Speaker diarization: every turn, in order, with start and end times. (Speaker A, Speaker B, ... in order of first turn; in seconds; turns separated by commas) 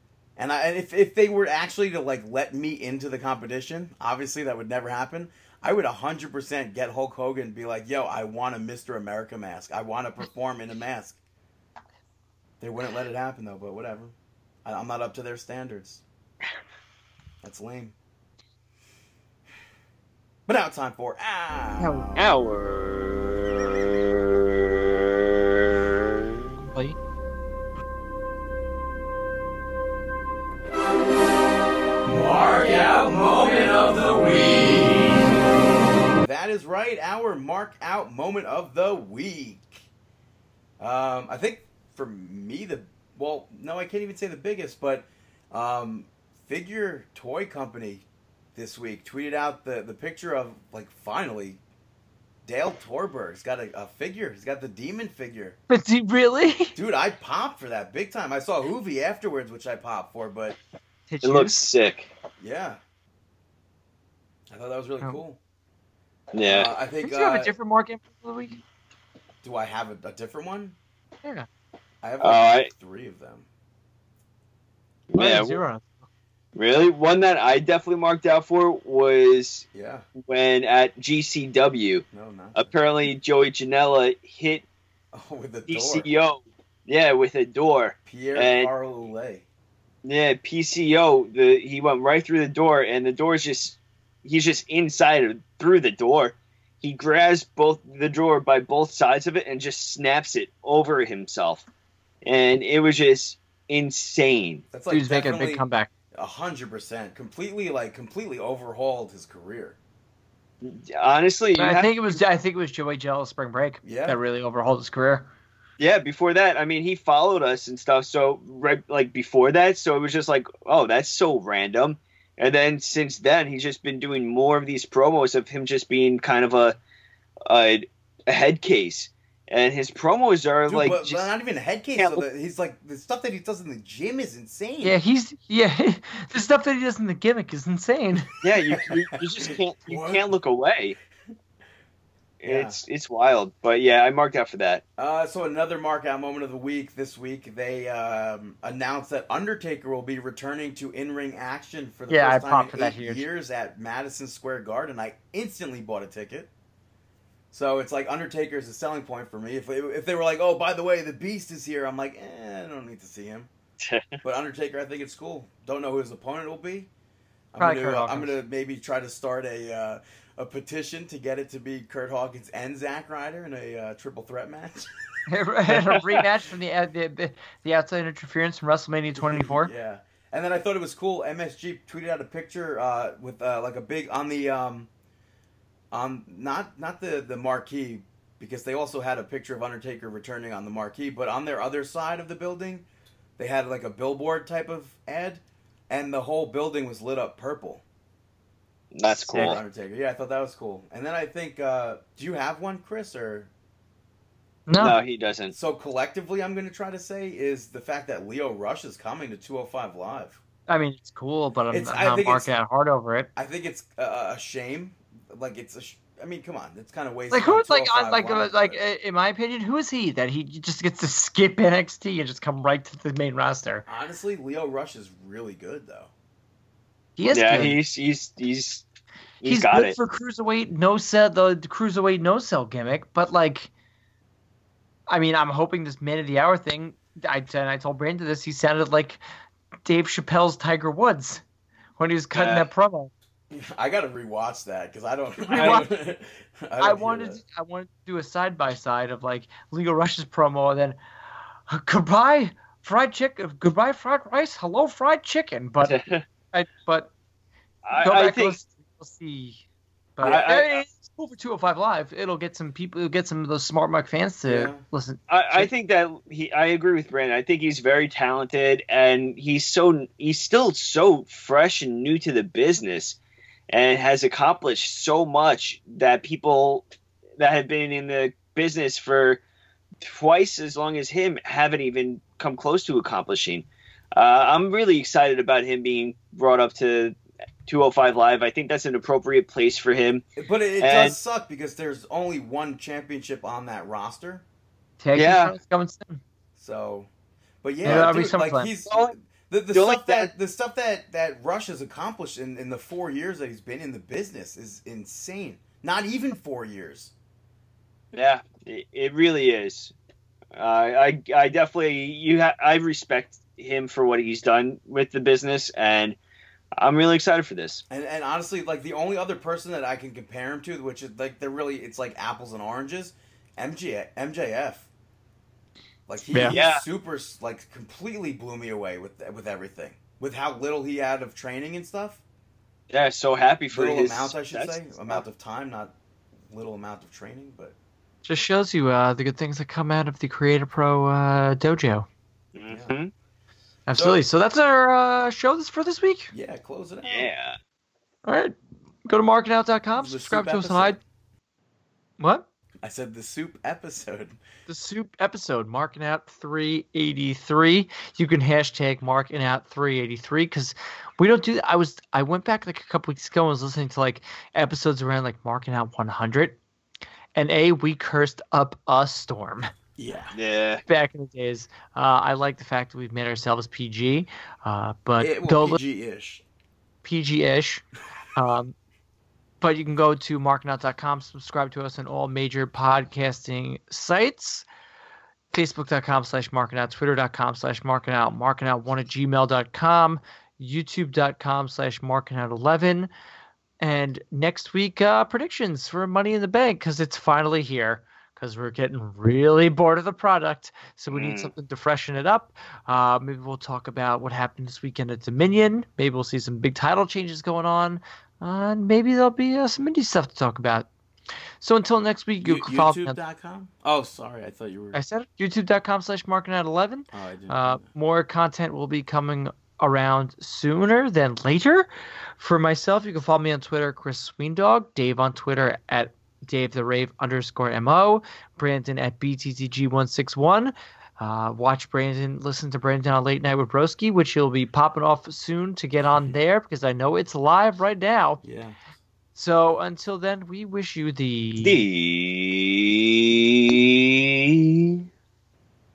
Speaker A: 0.4-11.2, Speaker A: 12.6-14.1, Speaker A: 14.6-16.0, Speaker A: 17.4-17.9, Speaker A: 20.5-22.3, Speaker B: 22.1-26.5, Speaker A: 32.0-35.2, Speaker A: 36.2-39.9, Speaker A: 40.8-51.6, Speaker A: 52.4-55.6, Speaker C: 55.7-56.7, Speaker A: 56.7-60.6, Speaker C: 61.1-61.5, Speaker B: 61.2-62.1, Speaker A: 62.4-62.8, Speaker A: 64.5-65.4, Speaker B: 66.3-66.7, Speaker A: 66.4-67.5, Speaker C: 67.0-68.6, Speaker A: 69.4-70.8, Speaker A: 72.0-73.5, Speaker B: 72.2-72.7, Speaker B: 75.1-75.6, Speaker C: 75.2-76.0, Speaker B: 76.5-79.7, Speaker A: 79.7-80.0, Speaker B: 80.2-84.6, Speaker A: 82.1-82.7, Speaker A: 85.1-86.1, Speaker B: 85.7-88.7, Speaker A: 88.0-89.4, Speaker B: 90.0-101.7, Speaker B: 102.2-104.6, Speaker A: 104.7-109.8, Speaker C: 104.9-105.9, Speaker B: 110.6-111.9, Speaker C: 111.5-115.3, Speaker A: 113.8-114.2, Speaker B: 115.8-126.8, Speaker B: 127.5-131.3, Speaker A: 130.7-135.0, Speaker B: 131.9-132.2, Speaker C: 134.8-138.3, Speaker B: 138.4-141.0, Speaker A: 138.7-140.3, Speaker B: 142.4-144.8, Speaker A: 142.4-142.8, Speaker A: 145.0-156.5, Speaker C: 152.1-153.2, Speaker A: 157.5-163.5, Speaker B: 163.8-164.2, Speaker A: 164.2-166.9, Speaker A: 167.5-174.9, Speaker C: 167.6-168.3, Speaker C: 175.3-179.7, Speaker A: 179.2-184.9, Speaker A: 185.9-192.8, Speaker A: 193.4-197.8, Speaker B: 198.9-199.6, Speaker A: 199.1-203.5, Speaker C: 199.3-199.6, Speaker C: 204.7-205.0, Speaker B: 204.8-205.5, Speaker A: 205.5-210.4, Speaker C: 210.7-213.3, Speaker A: 211.7-212.5, Speaker A: 213.3-218.8, Speaker C: 217.3-223.8, Speaker A: 223.9-226.1, Speaker C: 227.2-227.8, Speaker B: 227.3-228.8, Speaker B: 229.4-230.0, Speaker C: 229.4-233.7, Speaker C: 235.1-239.2, Speaker C: 239.8-241.4, Speaker C: 242.0-243.1, Speaker B: 242.3-242.7, Speaker A: 243.5-247.4, Speaker C: 245.4-245.9, Speaker B: 245.5-245.8, Speaker C: 246.8-251.0, Speaker C: 251.7-255.9, Speaker B: 255.8-256.2, Speaker C: 256.5-257.1, Speaker B: 257.8-258.6, Speaker C: 257.9-259.6, Speaker C: 260.1-265.7, Speaker B: 260.2-260.8, Speaker A: 264.5-264.8, Speaker B: 265.3-273.2, Speaker B: 273.7-276.9, Speaker B: 277.4-279.4, Speaker B: 280.0-290.3, Speaker A: 290.4-294.4, Speaker B: 290.8-291.2, Speaker C: 295.0-296.2, Speaker B: 295.1-295.5, Speaker A: 296.6-297.1, Speaker A: 297.6-307.1, Speaker B: 297.8-298.2, Speaker C: 297.8-298.7, Speaker B: 298.9-299.1, Speaker B: 299.7-300.3, Speaker B: 308.1-309.9, Speaker B: 310.5-316.2, Speaker B: 316.8-317.8, Speaker A: 317.9-324.9, Speaker A: 326.1-332.2, Speaker C: 326.3-326.6, Speaker B: 326.5-326.9, Speaker B: 332.9-335.2, Speaker A: 333.7-335.9, Speaker A: 336.5-337.8, Speaker C: 338.2-342.1, Speaker B: 342.5-343.1, Speaker C: 343.9-346.3, Speaker A: 343.9-344.2, Speaker A: 346.3-347.3, Speaker B: 347.0-347.6, Speaker C: 348.2-348.5, Speaker C: 349.1-351.0, Speaker A: 350.0-351.0, Speaker C: 352.2-352.4, Speaker A: 352.8-354.4, Speaker C: 354.7-366.6, Speaker C: 367.3-369.7, Speaker A: 370.0-370.3, Speaker B: 370.3-370.8, Speaker C: 370.9-375.8, Speaker A: 375.2-376.4, Speaker C: 377.0-377.8, Speaker C: 378.3-378.7, Speaker C: 379.6-384.6, Speaker C: 385.5-393.1, Speaker C: 393.8-410.9, Speaker B: 401.1-401.5, Speaker C: 411.6-413.2, Speaker A: 412.4-415.0, Speaker C: 414.9-438.4, Speaker A: 417.1-417.9, Speaker A: 438.4-438.8, Speaker C: 439.4-441.8, Speaker B: 441.6-445.0